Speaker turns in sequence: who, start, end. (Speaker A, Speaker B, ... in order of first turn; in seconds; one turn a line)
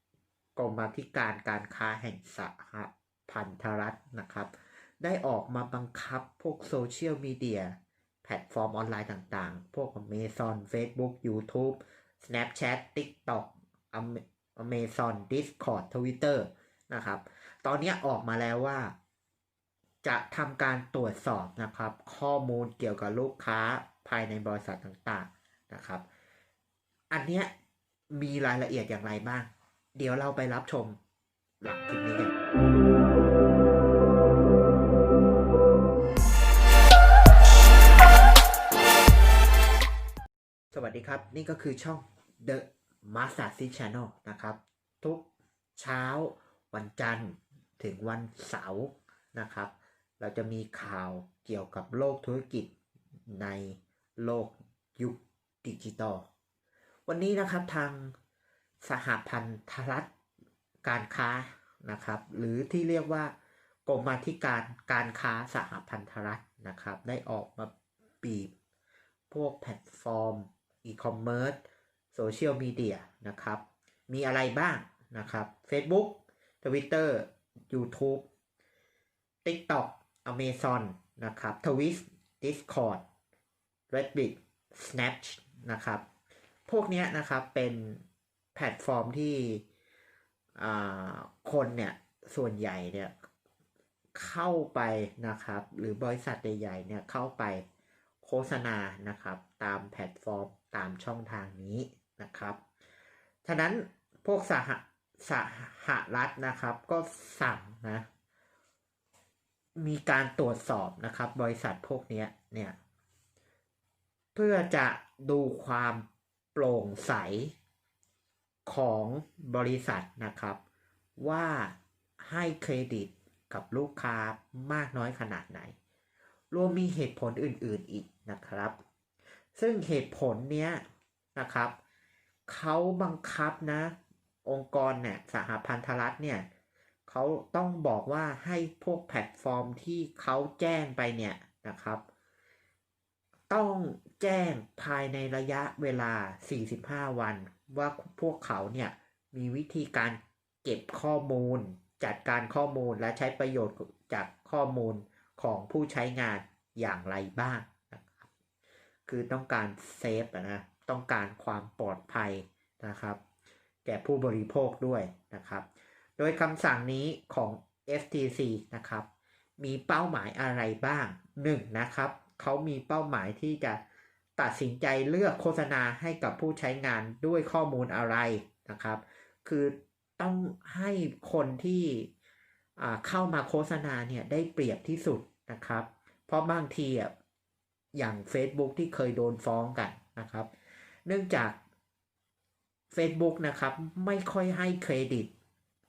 Speaker A: 0.6-18.9
Speaker A: 20.0-26.0
Speaker A: 27.1-27.5
Speaker A: 28.1-31.0
Speaker A: 31.6-32.3
Speaker A: 40.7-52.7
Speaker A: 53.3-56.3
Speaker A: 57.1-58.1
Speaker A: 58.8-60.1
Speaker A: 60.8-63.3
Speaker A: 63.9-68.5
Speaker A: 69.3-71.6
Speaker A: 72.1-78.2
Speaker A: 79.4-83.0
Speaker A: 83.9-86.0
Speaker A: 86.7-88.0
Speaker A: 88.5-89.6
Speaker A: 90.6-93.1
Speaker A: 94.1-97.6
Speaker A: 98.2-102.6
Speaker A: 103.4-108.0
Speaker A: 109.8-112.8
Speaker A: 114.3-117.5
Speaker A: 118.7-120.6
Speaker A: 121.2-125.7
Speaker A: 126.5-128.8
Speaker A: 129.5-130.8
Speaker A: 131.3-131.8
Speaker A: 132.5-136.4
Speaker A: 137.1-142.0
Speaker A: 143.5-158.3
Speaker A: 159.1-163.2
Speaker A: 163.8-165.7
Speaker A: 166.2-169.1
Speaker A: 169.6-173.8
Speaker A: 174.4-182.1
Speaker A: 182.8-187.1
Speaker A: 187.9-190.5
Speaker A: 191.1-191.6
Speaker A: 192.9-195.3